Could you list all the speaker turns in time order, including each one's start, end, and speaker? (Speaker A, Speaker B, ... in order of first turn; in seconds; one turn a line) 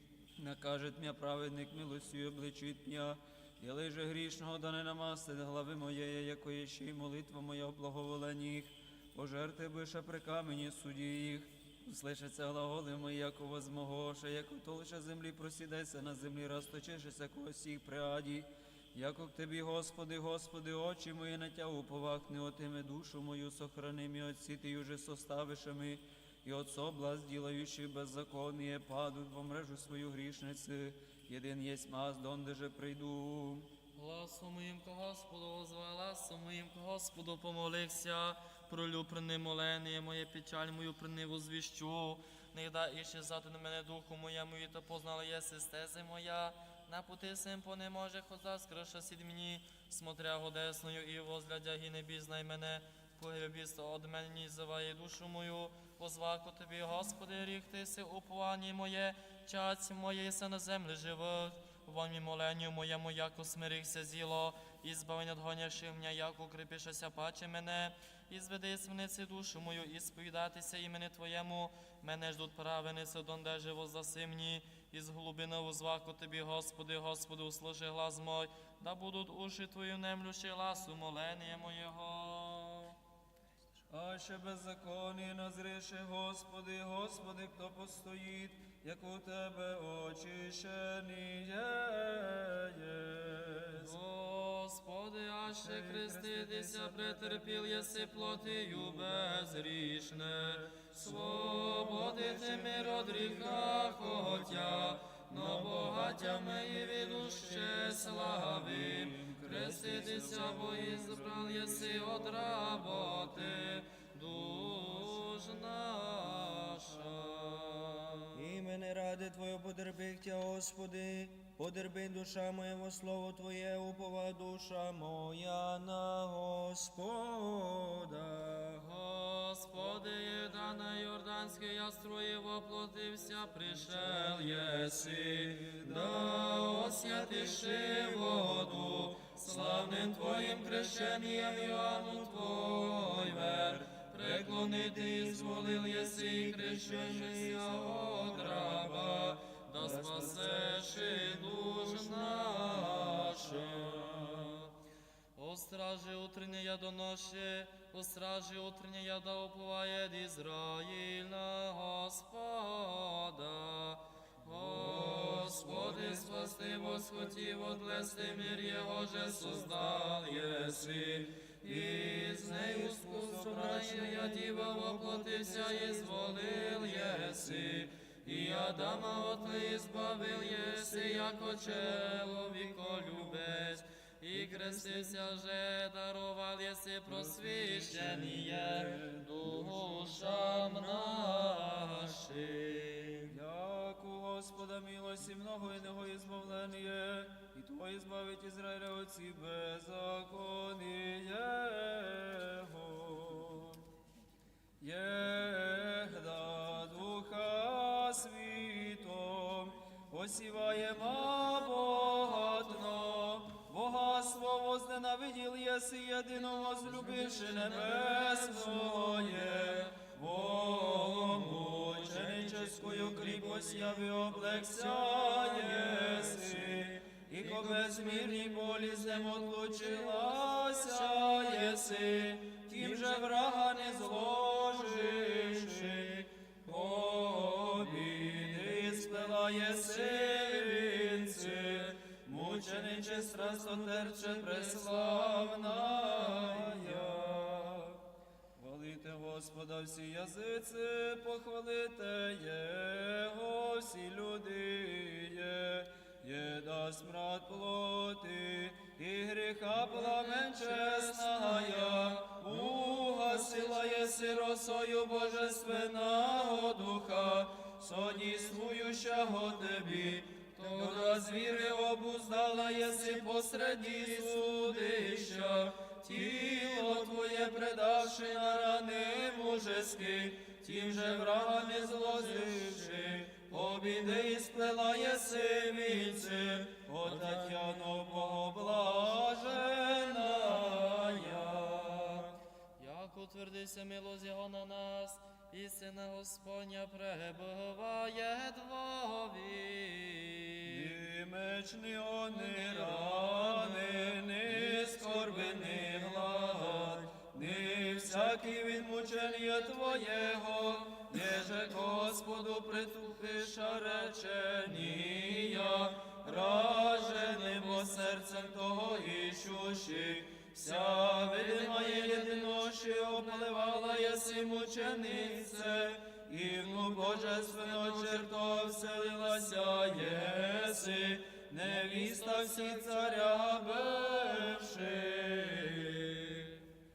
Speaker A: 0.4-33.7
Speaker B: 34.0-82.9
Speaker A: 83.9-93.9
Speaker B: 93.7-118.3
Speaker A: 95.5-97.4
Speaker A: 102.9-103.2
Speaker A: 108.4-112.8
Speaker C: 118.3-128.8
Speaker B: 128.7-154.6
Speaker A: 135.5-135.9
Speaker A: 146.2-147.7
Speaker A: 149.8-151.3
Speaker B: 155.3-193.3
Speaker A: 164.8-166.2
Speaker A: 172.1-174.4
Speaker A: 187.1-189.7
Speaker A: 193.3-203.8
Speaker A: 204.8-248.0
Speaker B: 223.0-223.4
Speaker B: 225.8-226.2
Speaker A: 248.6-292.3
Speaker B: 259.9-262.2
Speaker B: 270.6-271.2
Speaker B: 292.8-300.9
Speaker A: 300.6-336.5
Speaker B: 302.3-306.4
Speaker B: 317.4-317.7
Speaker B: 321.0-322.7
Speaker B: 327.4-328.2
Speaker B: 331.7-332.9